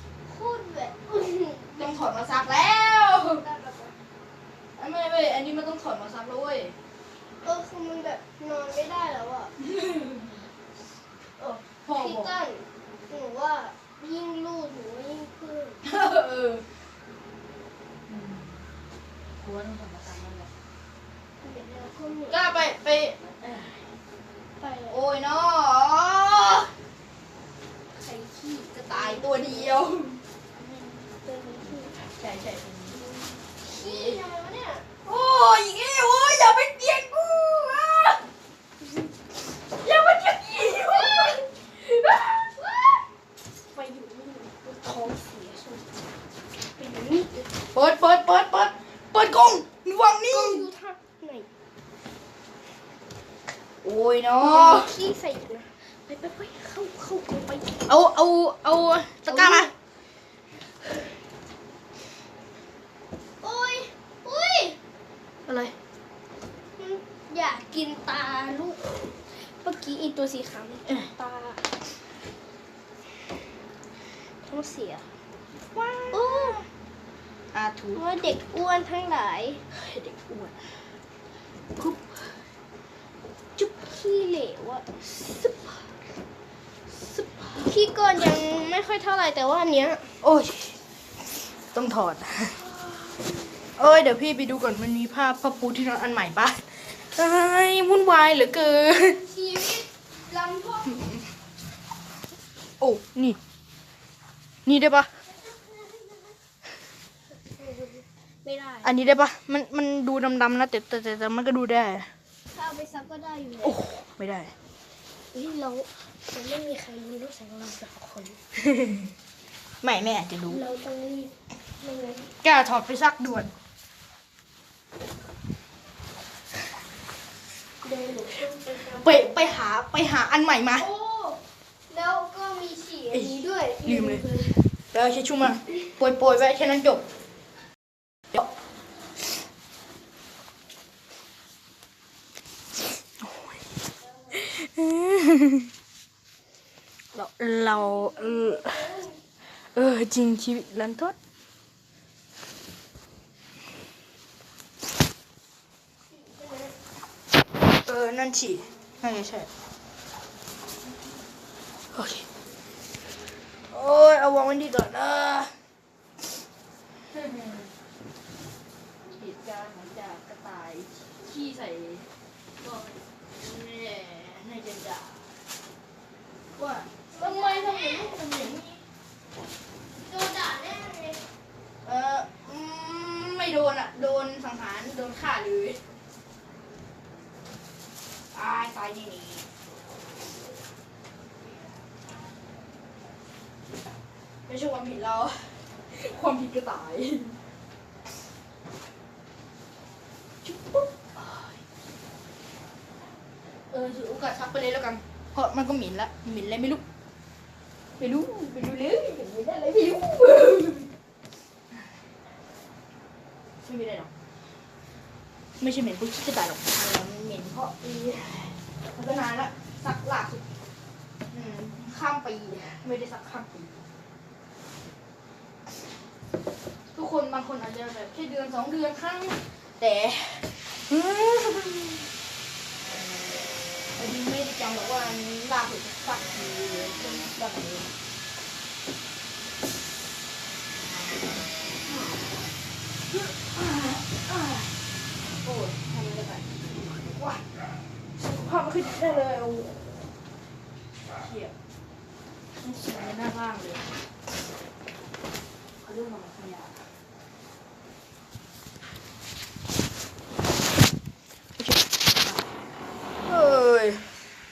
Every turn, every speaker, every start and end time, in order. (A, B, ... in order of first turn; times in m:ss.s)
0:00.2-0:02.0 A
0:01.8-0:03.4 B
0:03.4-0:03.9 A
0:04.8-0:06.7 B
0:07.4-0:09.5 A
0:09.6-0:10.4 B
0:11.4-0:12.3 B
0:11.4-0:15.8 A
0:15.8-0:16.6 B
0:18.1-0:18.6 B
0:19.4-0:20.5 B
0:21.4-0:22.4 A
0:22.3-0:23.8 B
0:24.6-0:25.0 A
0:24.9-0:26.7 B
0:28.0-0:31.0 B
0:28.9-0:29.8 A
0:31.2-0:32.0 A
0:32.0-0:34.2 B
0:33.6-0:34.9 A
0:35.0-0:38.2 B
0:39.8-0:42.5 B
0:40.7-0:41.5 A
0:42.6-0:42.9 A
0:43.7-0:45.8 A
0:46.8-0:47.4 A
0:47.7-0:50.6 B
0:50.3-0:51.5 A
0:53.8-0:54.9 B
0:54.4-0:57.8 A
0:57.8-0:59.7 B
0:59.3-0:59.7 A
1:03.4-1:04.8 A
1:05.4-1:05.7 B
1:06.8-1:11.6 A
1:10.8-1:11.1 B
1:14.4-1:15.1 A
1:15.7-1:16.6 B
1:16.1-1:16.6 A
1:17.5-1:18.0 B
1:17.9-1:19.6 A
1:19.7-1:20.6 B
1:21.8-1:22.2 B
1:23.6-1:23.8 B
1:23.8-1:24.8 A
1:25.0-1:25.8 B
1:27.0-1:27.7 B
1:27.6-1:30.1 A
1:30.2-1:30.7 B
1:31.7-1:32.6 B
1:33.8-1:39.2 B
1:39.0-1:41.0 A
1:42.8-1:43.4 B
1:44.6-1:45.1 B
1:45.5-1:46.2 A
1:47.4-1:48.9 A
1:48.8-1:52.1 B
1:52.5-1:53.8 A
1:53.6-1:54.5 B
1:55.3-1:58.4 A
1:58.6-1:59.1 B
1:59.8-2:00.6 B
2:00.5-2:02.3 A
2:02.4-2:03.5 B
2:07.8-2:09.2 A
2:08.8-2:10.9 B
2:10.7-2:14.6 A
2:13.1-2:14.2 B
2:14.9-2:17.0 B
2:24.3-2:25.7 B
2:27.1-2:29.0 B
2:28.5-2:29.1 A
2:29.7-2:31.1 B
2:36.1-2:36.7 A
2:37.8-2:39.5 B
2:41.9-2:42.2 B
2:43.7-2:45.5 B
2:47.1-2:47.7 B
2:49.2-2:52.0 B
2:52.6-2:55.3 B
2:56.6-2:58.8 B
2:57.1-2:58.2 A
3:00.0-3:01.2 A
3:01.8-3:05.8 B
3:08.3-3:09.4 B
3:14.5-3:17.4 B
3:20.4-3:21.6 B
3:23.7-3:26.8 B
3:28.0-3:30.9 B
3:33.6-3:34.1 B
3:35.6-3:40.4 B
3:41.3-3:43.8 B
3:46.9-3:52.1 B
3:54.0-3:57.9 B
4:03.1-4:04.7 B
4:05.3-4:07.4 B
4:08.2-4:10.1 B
4:11.2-4:11.5 B
4:12.6-4:13.9 B
4:15.8-4:16.8 B
4:21.6-4:22.4 B
4:23.2-4:24.1 B